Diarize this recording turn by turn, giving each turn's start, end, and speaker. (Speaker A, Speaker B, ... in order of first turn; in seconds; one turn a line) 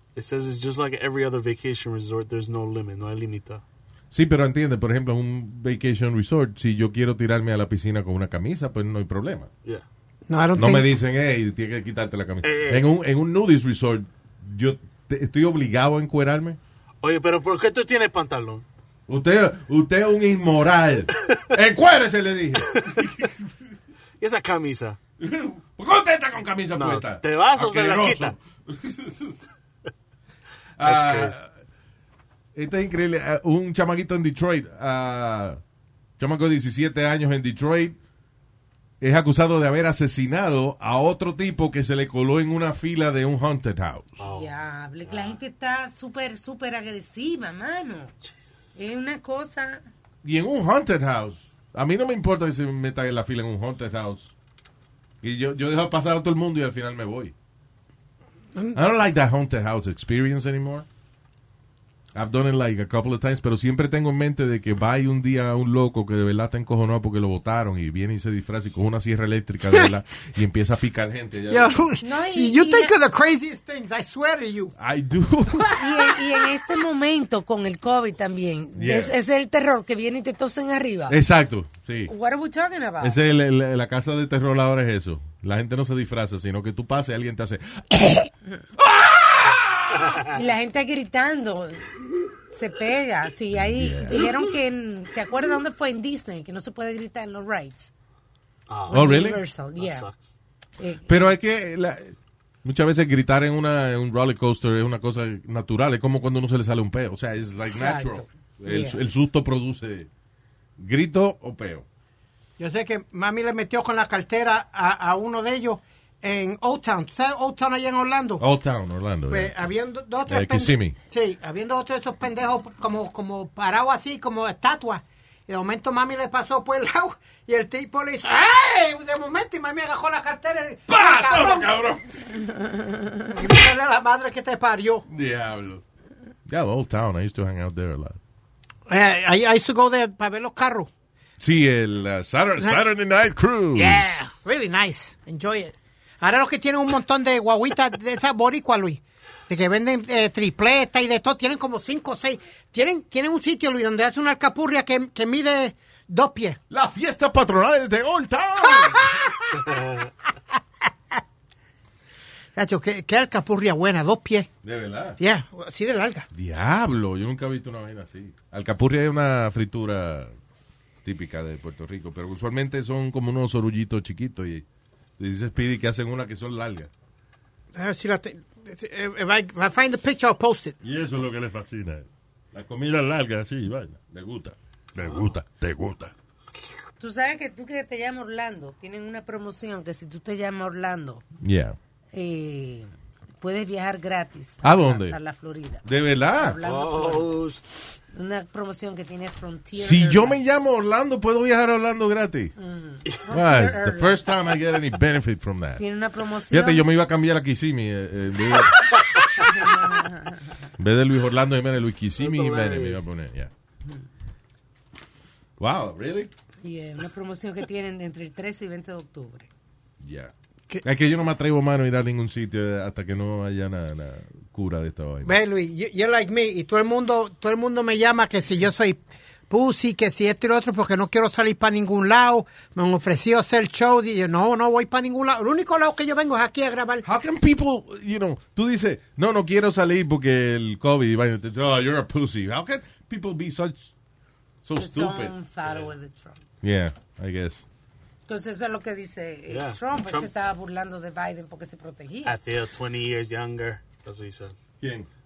Speaker A: 0.1-3.6
Speaker B: 4.1-9.5
Speaker C: 10.3-10.9
Speaker B: 10.6-16.6
Speaker A: 12.4-12.9
Speaker A: 17.0-18.6
Speaker B: 19.1-23.5
Speaker A: 24.2-25.0
Speaker B: 25.2-29.4
Speaker A: 26.8-28.4
Speaker B: 30.8-31.5
Speaker A: 30.8-31.4
Speaker B: 32.5-35.6
Speaker B: 36.2-38.0
Speaker B: 39.0-44.2
Speaker A: 44.2-44.5
Speaker D: 44.3-48.1
Speaker A: 45.1-45.4
Speaker D: 48.8-49.9
Speaker B: 50.2-54.3
Speaker B: 55.2-57.3
Speaker B: 58.7-60.9
Speaker B: 62.1-71.7
Speaker C: 71.5-74.7
Speaker D: 72.0-73.0
Speaker B: 74.8-75.8
Speaker D: 75.8-81.2
Speaker B: 78.8-79.1
Speaker B: 81.1-82.1
Speaker D: 82.1-83.2
Speaker B: 83.0-90.1
Speaker D: 90.3-91.9
Speaker D: 92.5-97.9
Speaker B: 93.6-94.3
Speaker A: 98.7-100.3
Speaker D: 98.9-100.1
Speaker B: 98.9-99.4
Speaker D: 100.8-101.3
Speaker B: 101.1-110.1
Speaker D: 107.8-109.0
Speaker B: 110.8-111.8
Speaker C: 112.6-118.4
Speaker B: 118.4-119.5
Speaker C: 119.3-131.7
Speaker B: 120.3-121.0
Speaker B: 130.9-132.6
Speaker C: 133.3-135.0
Speaker B: 135.1-135.8
Speaker B: 136.5-138.2
Speaker C: 138.9-140.9
Speaker B: 141.4-144.2
Speaker C: 143.8-156.6
Speaker B: 156.7-159.2
Speaker C: 158.6-159.3
Speaker A: 159.7-160.1
Speaker C: 162.6-164.5
Speaker B: 164.6-165.2
Speaker C: 165.2-166.3
Speaker B: 166.3-170.3
Speaker B: 171.1-174.7
Speaker B: 175.2-176.9
Speaker C: 177.7-180.8
Speaker E: 180.8-186.1
Speaker D: 187.0-191.2
Speaker B: 191.4-191.8
Speaker D: 192.1-192.9
Speaker D: 193.4-197.4
Speaker B: 194.6-195.2
Speaker B: 195.8-196.6
Speaker A: 196.6-197.6
Speaker D: 198.1-200.6
Speaker B: 199.8-202.5
Speaker D: 202.6-204.2
Speaker B: 203.3-205.8
Speaker D: 205.8-206.8
Speaker B: 206.5-209.0
Speaker D: 209.4-210.5
Speaker B: 210.8-213.5
Speaker A: 212.2-213.1
Speaker B: 215.6-216.3
Speaker D: 216.6-219.5
Speaker B: 220.0-220.3
Speaker B: 220.8-225.3
Speaker C: 225.2-237.1
Speaker B: 237.0-243.9
Speaker B: 244.7-245.3
Speaker D: 244.8-246.4
Speaker B: 246.6-247.6
Speaker D: 248.3-252.4
Speaker A: 249.5-250.3
Speaker A: 252.2-254.6
Speaker B: 254.8-255.1